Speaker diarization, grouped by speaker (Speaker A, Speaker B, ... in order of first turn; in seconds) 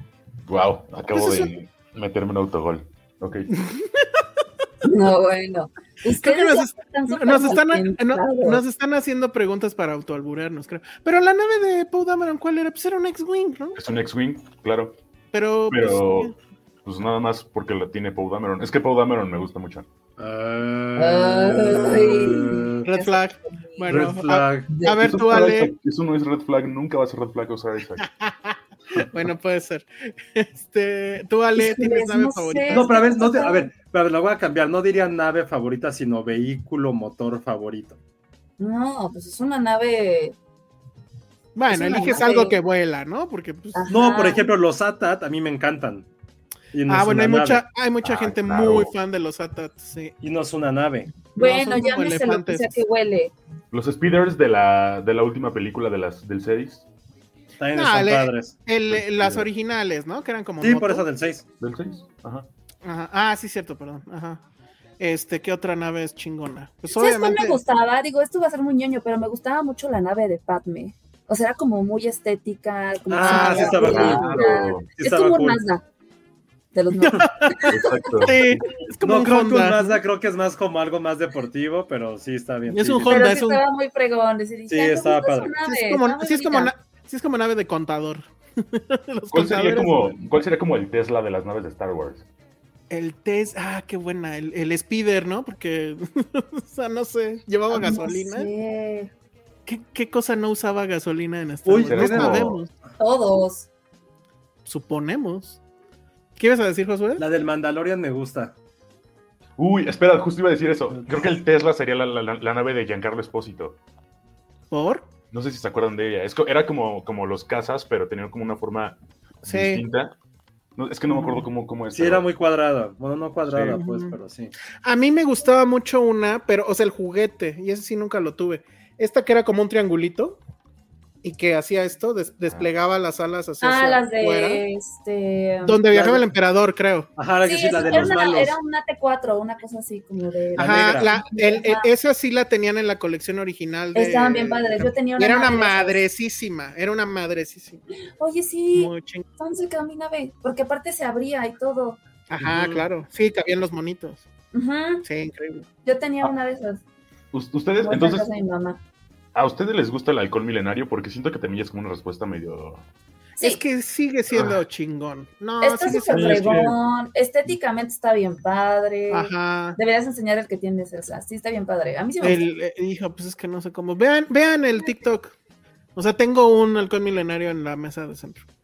Speaker A: 0.5-3.5, 13.8-15.0, 15.7-16.3, 16.9-19.9, 25.0-28.1, 48.0-48.9, 53.7-56.9, 58.9-59.5, 61.6-62.5, 73.8-74.9, 77.7-78.8, 89.3-92.2, 101.9-102.6, 109.6-113.8, 115.3-120.1, 120.8-122.3, 123.5-123.8, 152.4-152.8, 157.3-158.3, 159.3-162.8, 164.3-164.6, 166.1-166.8
Speaker B: 1.1-1.5, 3.6-4.2, 6.2-13.8, 15.3-16.4, 22.8-25.7, 28.2-33.2, 41.5-43.9, 46.9-50.1, 51.4-52.8, 57.7-61.0, 62.8-64.4, 65.0-67.6, 73.2-74.2, 77.0-80.0, 82.7-83.6, 85.7-90.2, 92.9-98.5, 99.7-102.7, 104.7-105.6, 106.4-107.2, 114.7-115.1, 119.5-119.8, 121.1-121.5, 123.7-124.2, 124.8-130.4, 131.2-134.6, 135.7-137.1, 140.6-147.8, 148.8-149.3, 152.3-154.2, 155.1-155.7, 163.4-166.7, 169.1-169.8, 172.2-175.3, 176.0-178.4
Speaker C: 4.8-8.6, 21.0-23.9, 24.7-25.1, 31.6-33.7, 38.6-40.4, 41.7-42.6, 43.7-44.5, 51.4-53.3, 66.9-75.8, 76.7-77.8, 83.1-86.7, 97.7-99.1, 103.0-103.7, 133.6-135.8, 137.4-141.9, 143.9-146.0, 148.2-152.0, 154.5-155.0, 155.8-156.8, 157.8-158.8, 165.6-172.4
Speaker D: 20.2-22.9, 23.9-24.7, 32.7-38.0, 43.9-46.1, 46.7-47.6, 50.2-51.1, 57.6-58.6, 60.6-61.4, 73.1-75.6, 79.0-83.4, 84.7-85.5, 101.7-102.5, 107.2-108.5, 121.9-124.5, 135.9-136.2, 137.2-138.6, 140.6-141.2